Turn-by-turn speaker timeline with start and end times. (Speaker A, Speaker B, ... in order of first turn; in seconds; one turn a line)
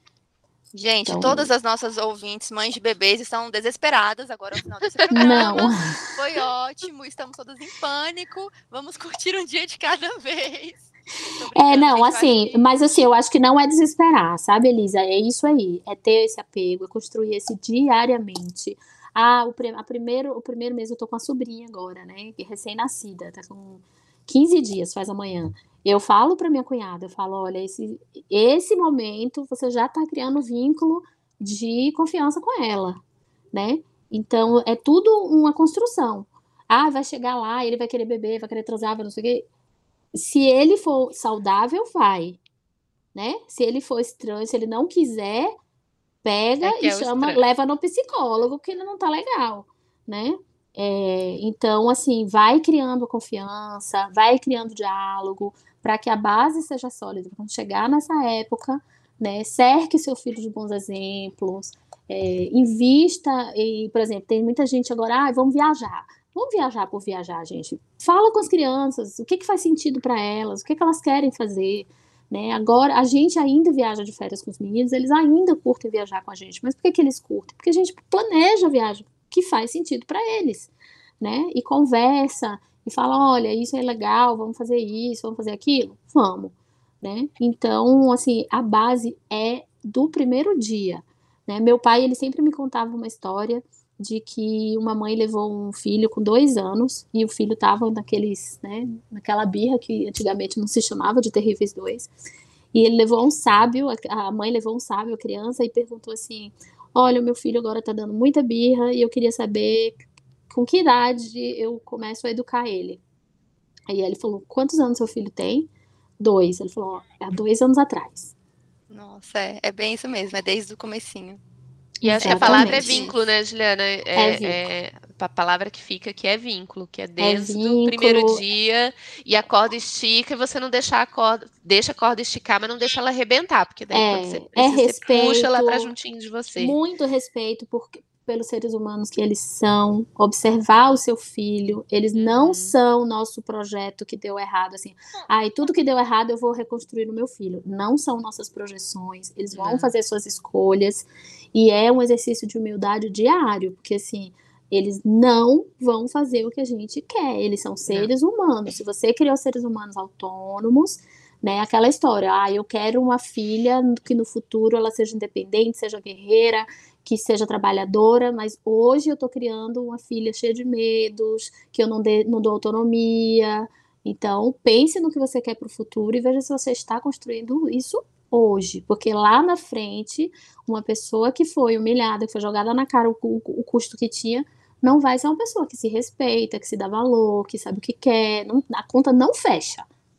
Speaker A: 0.7-12.7
Speaker B: 1.1-1.5
Speaker C: 5.1-5.6
Speaker B: 5.1-6.1
Speaker B: 11.5-33.0
Speaker B: 33.5-39.5
Speaker B: 40.1-42.4
Speaker B: 43.1-45.5
Speaker B: 46.2-80.7
Speaker C: 46.6-47.4
Speaker B: 81.2-102.1
Speaker B: 102.7-113.0
Speaker B: 113.9-115.7
Speaker B: 116.2-118.3
Speaker A: 118.9-121.4
Speaker B: 122.0-123.0
Speaker C: 122.0-136.8
Speaker A: 122.2-123.2
Speaker B: 124.1-124.6
Speaker B: 127.2-128.4
Speaker B: 133.9-135.9
Speaker B: 136.6-189.8
Speaker C: 142.1-142.8
Speaker C: 149.5-149.9